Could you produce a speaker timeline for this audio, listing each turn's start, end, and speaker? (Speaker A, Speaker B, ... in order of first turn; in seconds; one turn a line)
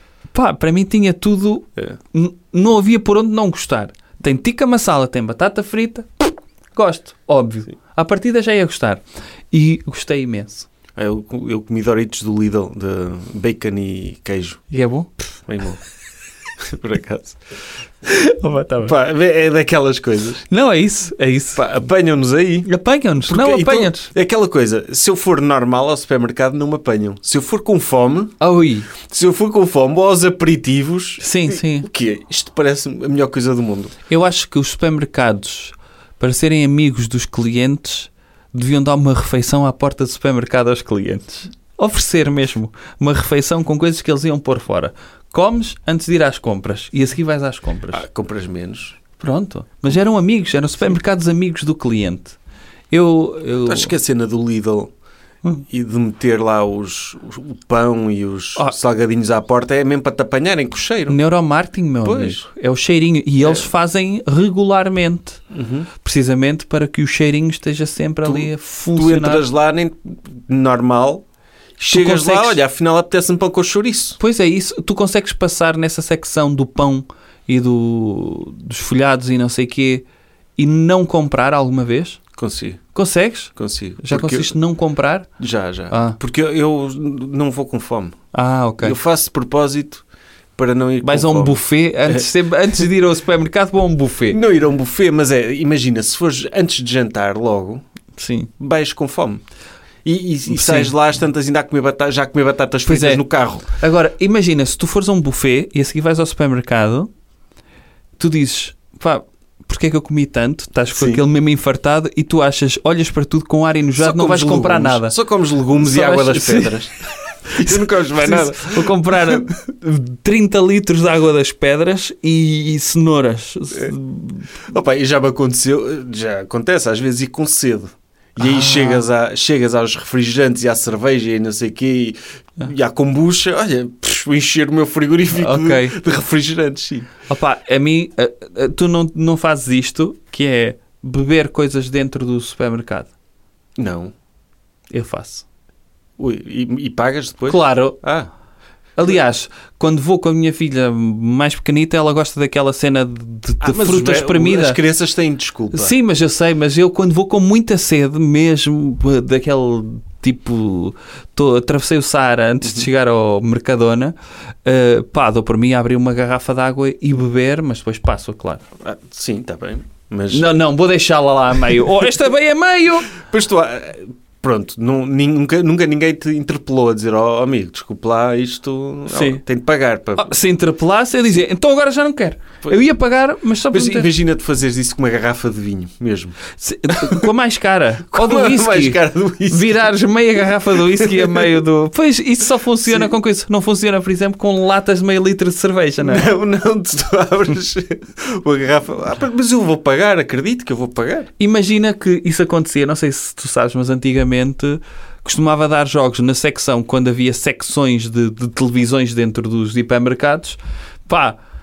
Speaker A: 0.3-10.7
Speaker B: 11.0-14.6
Speaker A: 14.7-15.2
Speaker B: 15.5-15.8
Speaker B: 16.7-17.4
Speaker A: 18.0-18.9
Speaker B: 18.9-20.4
Speaker A: 20.5-21.6
Speaker B: 21.5-22.7
Speaker A: 22.6-24.1
Speaker B: 23.3-28.4
Speaker A: 28.4-28.9
Speaker B: 29.1-33.9
Speaker A: 31.2-31.9
Speaker A: 34.1-48.0
Speaker B: 47.9-49.0
Speaker A: 49.2-52.4
Speaker A: 52.9-53.9
Speaker B: 53.7-54.9
Speaker B: 55.7-61.2
Speaker A: 61.1-65.4
Speaker B: 62.0-62.5
Speaker B: 63.4-63.7
Speaker B: 65.5-65.9
Speaker A: 66.0-69.5
Speaker B: 68.2-71.2
Speaker B: 71.8-74.2
Speaker A: 71.9-72.6
Speaker A: 74.2-80.0
Speaker A: 80.6-82.2
Speaker B: 82.4-82.8
Speaker A: 83.0-85.3
Speaker B: 83.6-84.5
Speaker B: 85.4-88.2
Speaker A: 85.9-86.2
Speaker A: 88.3-89.0
Speaker B: 88.8-90.0
Speaker B: 90.6-92.8
Speaker A: 91.0-94.4
Speaker B: 94.3-97.8
Speaker A: 98.2-98.5
Speaker B: 98.6-99.4
Speaker B: 100.0-103.7
Speaker A: 100.5-100.9
Speaker A: 102.9-107.1
Speaker A: 108.2-115.2
Speaker B: 111.0-111.2
Speaker B: 114.0-116.9
Speaker A: 115.7-124.5
Speaker B: 117.6-119.4
Speaker B: 124.7-137.1
Speaker A: 128.4-129.0
Speaker A: 135.3-136.0
Speaker A: 137.3-143.1
Speaker B: 143.8-144.1
Speaker A: 144.9-145.4
Speaker B: 146.2-148.3
Speaker A: 147.5-148.0
Speaker A: 149.0-154.8
Speaker B: 153.6-155.9
Speaker A: 155.7-168.6
Speaker B: 168.8-170.5
Speaker A: 170.3-173.1
Speaker B: 173.2-180.4
Speaker A: 179.1-179.4
Speaker A: 180.2-184.1
Speaker B: 183.7-186.4
Speaker A: 186.6-196.3
Speaker B: 187.0-187.3
Speaker B: 188.1-189.8
Speaker B: 190.7-191.6
Speaker B: 192.9-193.1
Speaker B: 196.0-201.3
Speaker A: 201.4-211.4